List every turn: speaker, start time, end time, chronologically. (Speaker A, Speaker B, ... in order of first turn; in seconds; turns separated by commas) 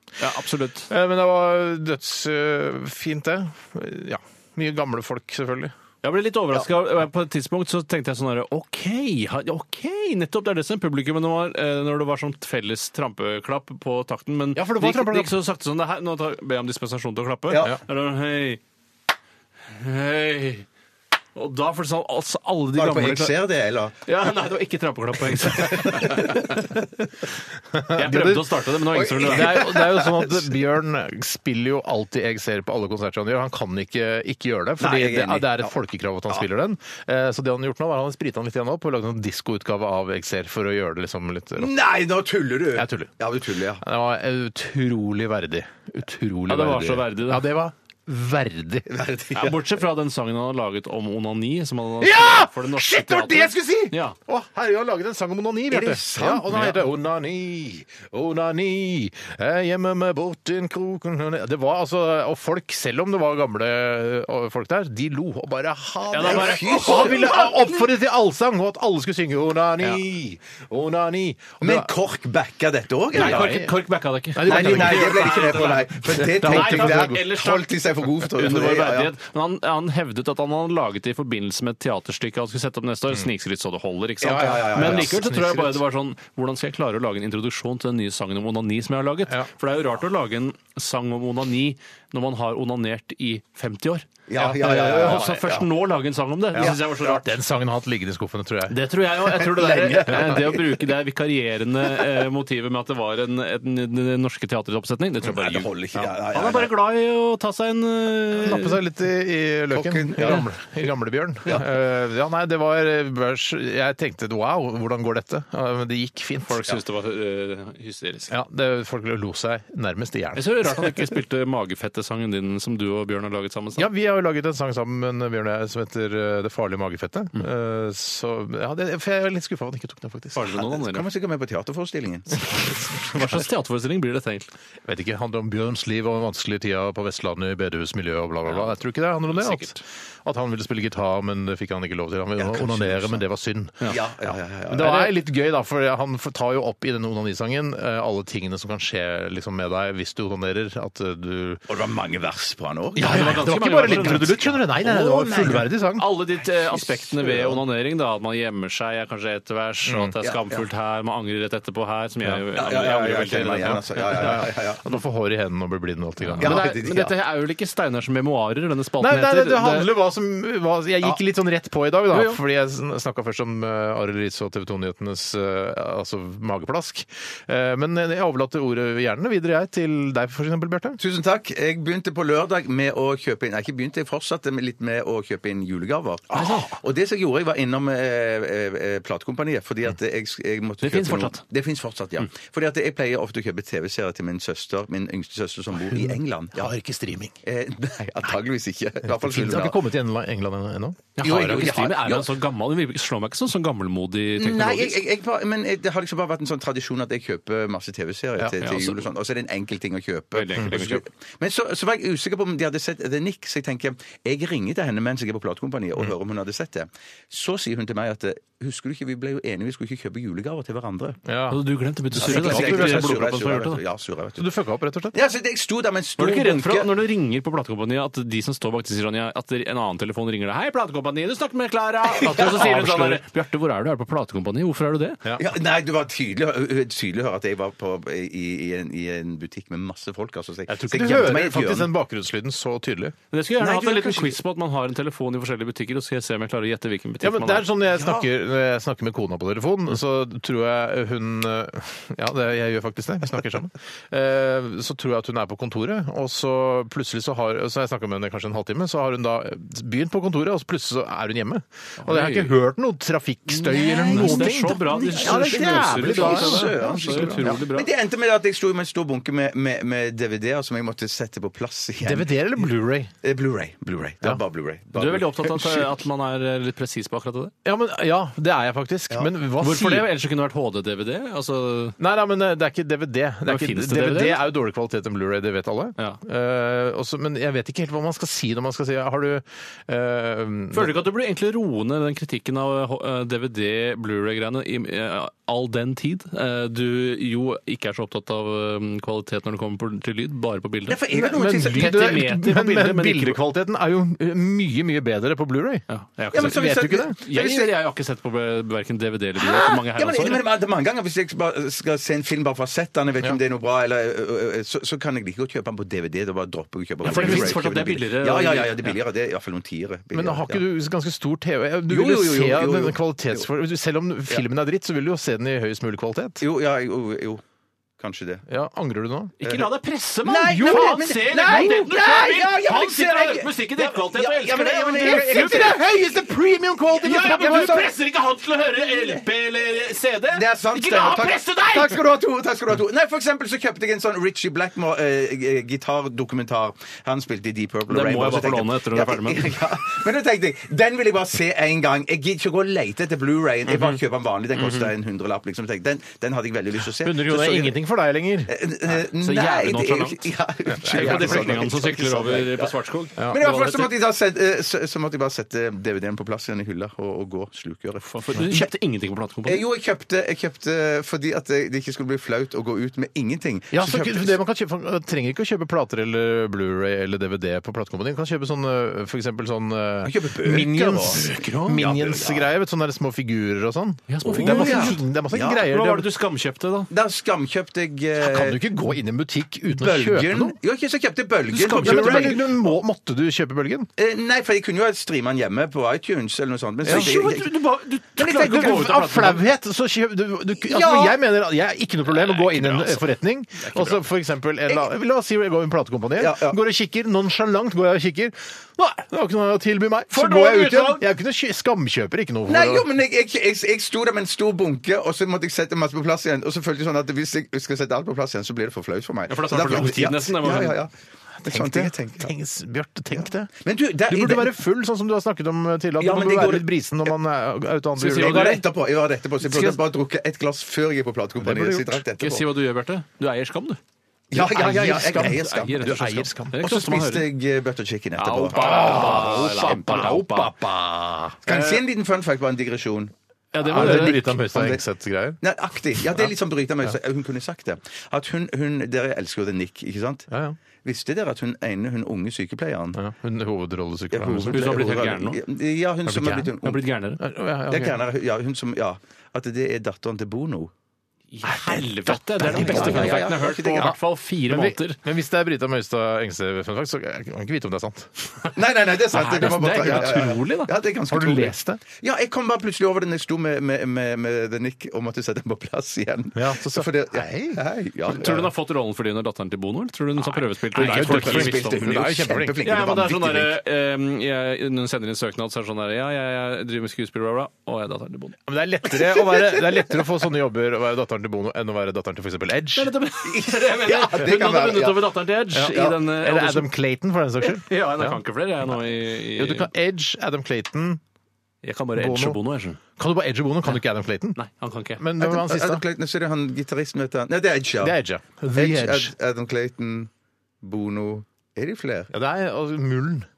Speaker A: 0.2-0.9, Speaker B: 0.9-5.7, Speaker A: 6.0-18.6, Speaker B: 14.5-15.3, Speaker C: 17.5-17.8, Speaker A: 19.7-20.6, Speaker A: 21.4-23.3, Speaker C: 22.7-24.0, Speaker A: 24.1-26.7, Speaker C: 25.5-26.5, Speaker B: 27.7-41.7, Speaker A: 27.9-29.7, Speaker C: 28.9-30.4, Speaker C: 34.8-35.7, Speaker C: 41.6-43.8, Speaker B: 42.7-43.1, Speaker B: 43.8-49.0, Speaker A: 46.5-47.5, Speaker C: 48.9-49.6, Speaker A: 49.3-54.2, Speaker B: 52.0-71.9, Speaker C: 55.7-56.7, Speaker A: 66.1-67.4, Speaker C: 66.2-67.8, Speaker C: 71.6-73.6, Speaker B: 73.1-73.7, Speaker A: 73.1-97.3, Speaker B: 74.3-77.2, Speaker C: 74.5-79.1, Speaker C: 84.2-85.2, Speaker B: 84.2-85.8, Speaker C: 94.3-95.7, Speaker B: 94.4-95.2, Speaker B: 96.5-98.8, Speaker A: 98.7-108.8, Speaker C: 99.2-100.9, Speaker C: 105.2-106.7, Speaker B: 108.3-116.6, Speaker C: 109.7-110.5, Speaker A: 116.4-118.3, Speaker B: 118.3-121.0, Speaker A: 120.3-123.9, Speaker B: 123.8-130.5, Speaker A: 130.3-131.1, Speaker C: 130.5-132.5, Speaker A: 132.8-134.5, Speaker B: 134.8-151.6, Speaker A: 138.5-138.7, Speaker A: 139.3-139.8, Speaker C: 142.4-143.2, Speaker C: 143.9-145.1, Speaker C: 151.7-155.7, Speaker B: 152.9-156.1, Speaker A: 153.0-154.4, Speaker A: 155.9-164.5, Speaker C: 156.7-157.6, Speaker B: 159.8-160.1, Speaker C: 160.2-160.6, Speaker C: 162.6-164.8, Speaker B: 163.6-166.6, Speaker A: 166.3-169.9, Speaker C: 166.4-167.1, Speaker B: 169.0-181.0, Speaker A: 172.1-172.4, Speaker C: 181.0-196.7, Speaker A: 186.3-186.7, Speaker B: 186.3-186.7, Speaker A: 190.8-191.4, Speaker B: 195.9-197.3, Speaker C: 197.4-199.8, Speaker B: 199.1-201.7, Speaker A: 201.2-205.0, Speaker C: 201.2-202.3, Speaker C: 204.4-221.2, Speaker A: 208.6-209.0, Speaker A: 210.3-211.0, Speaker B: 221.2-221.6, Speaker A: 221.5-223.8, Speaker B: 222.1-223.2, Speaker C: 222.1-224.5, Speaker B: 224.4-225.2, Speaker C: 225.1-226.9, Speaker A: 226.2-235.2, Speaker C: 232.2-232.9, Speaker B: 232.2-233.2, Speaker C: 235.4-241.9, Speaker B: 240.7-243.2, Speaker A: 243.3-247.7, Speaker C: 243.6-244.4, Speaker B: 247.2-267.6, Speaker C: 247.9-248.3, Speaker A: 262.0-262.5, Speaker C: 263.7-272.3, Speaker A: 263.7-267.9, Speaker B: 272.0-273.1, Speaker C: 273.2-275.9, Speaker A: 274.9-277.5, Speaker B: 277.6-280.1, Speaker A: 279.6-282.0, Speaker B: 282.0-291.0, Speaker A: 283.5-284.4, Speaker A: 290.7-303.4, Speaker C: 300.9-302.3, Speaker B: 301.1-307.1, Speaker A: 305.9-310.4, Speaker C: 306.3-307.7, Speaker C: 309.4-320.6, Speaker A: 317.0-318.9, Speaker B: 317.0-317.6, Speaker B: 320.1-326.4, Speaker C: 321.9-323.5, Speaker C: 326.4-327.4, Speaker C: 328.0-328.4, Speaker B: 328.5-329.4, Speaker A: 329.4-335.7, Speaker C: 329.4-329.7, Speaker C: 330.2-335.8, Speaker B: 330.6-332.1, Speaker B: 334.9-337.9, Speaker A: 337.0-342.0, Speaker C: 337.0-337.9, Speaker C: 338.9-339.2, Speaker C: 340.3-357.8, Speaker A: 347.9-349.6, Speaker A: 353.7-354.0, Speaker A: 354.6-354.9, Speaker B: 357.0-358.5, Speaker C: 358.5-362.7, Speaker A: 358.9-360.3, Speaker B: 360.7-361.7, Speaker A: 360.8-363.9, Speaker C: 363.3-368.7, Speaker A: 368.0-369.6, Speaker C: 369.4-374.4, Speaker B: 373.7-386.1, Speaker C: 380.0-382.5, Speaker A: 381.1-381.8, Speaker A: 384.1-385.0, Speaker C: 384.2-385.7, Speaker A: 385.6-386.9, Speaker C: 386.9-388.6, Speaker B: 388.2-390.6, Speaker C: 389.8-392.6, Speaker B: 391.5-393.9, Speaker A: 391.6-392.4, Speaker C: 394.0-397.5, Speaker B: 396.8-397.2, Speaker A: 396.9-399.4, Speaker B: 398.2-412.9, Speaker C: 398.2-398.9, Speaker C: 400.7-401.2, Speaker A: 402.1-404.0, Speaker C: 406.2-406.6, Speaker A: 410.1-411.0, Speaker C: 412.5-420.9, Speaker A: 419.3-420.8, Speaker B: 419.6-420.7, Speaker B: 421.4-423.5, Speaker C: 421.4-422.3, Speaker C: 423.2-424.6, Speaker B: 424.1-428.6, Speaker C: 426.0-427.1, Speaker A: 428.0-428.6, Speaker C: 428.0-432.5, Speaker A: 429.4-429.8, Speaker B: 431.4-432.0, Speaker A: 432.2-433.8, Speaker C: 434.3-440.1, Speaker B: 434.3-436.6, Speaker A: 435.1-437.3, Speaker A: 438.2-440.5, Speaker B: 438.5-441.5, Speaker C: 441.4-444.8, Speaker A: 441.5-441.8, Speaker A: 443.5-444.4, Speaker B: 443.6-445.4, Speaker C: 445.4-450.3, Speaker B: 445.9-446.3, Speaker B: 450.3-450.6, Speaker C: 450.8-453.0, Speaker B: 452.9-455.0, Speaker C: 454.1-456.8, Speaker A: 454.5-455.4, Speaker B: 456.1-456.6, Speaker A: 456.6-457.2, Speaker B: 457.2-458.0, Speaker C: 457.7-460.7, Speaker A: 461.3-465.0, Speaker B: 461.6-463.9, Speaker C: 462.4-463.9, Speaker B: 464.4-468.3, Speaker C: 468.5-478.5, Speaker A: 469.1-470.7, Speaker B: 469.4-470.3, Speaker B: 471.1-471.8, Speaker B: 476.3-477.6, Speaker A: 478.1-482.1, Speaker B: 480.3-482.7, Speaker C: 480.7-483.5, Speaker A: 482.6-488.4, Speaker B: 488.4-492.9, Speaker A: 492.7-496.7, Speaker C: 493.2-496.0, Speaker B: 495.5-498.2, Speaker A: 497.4-499.7, Speaker B: 499.2-501.0, Speaker A: 501.6-502.8, Speaker B: 501.9-502.4, Speaker B: 502.9-504.4, Speaker A: 504.4-505.0, Speaker B: 504.9-505.8, Speaker C: 505.2-508.0, Speaker B: 507.8-509.1, Speaker C: 508.5-510.1, Speaker C: 510.6-512.1, Speaker B: 512.1-513.3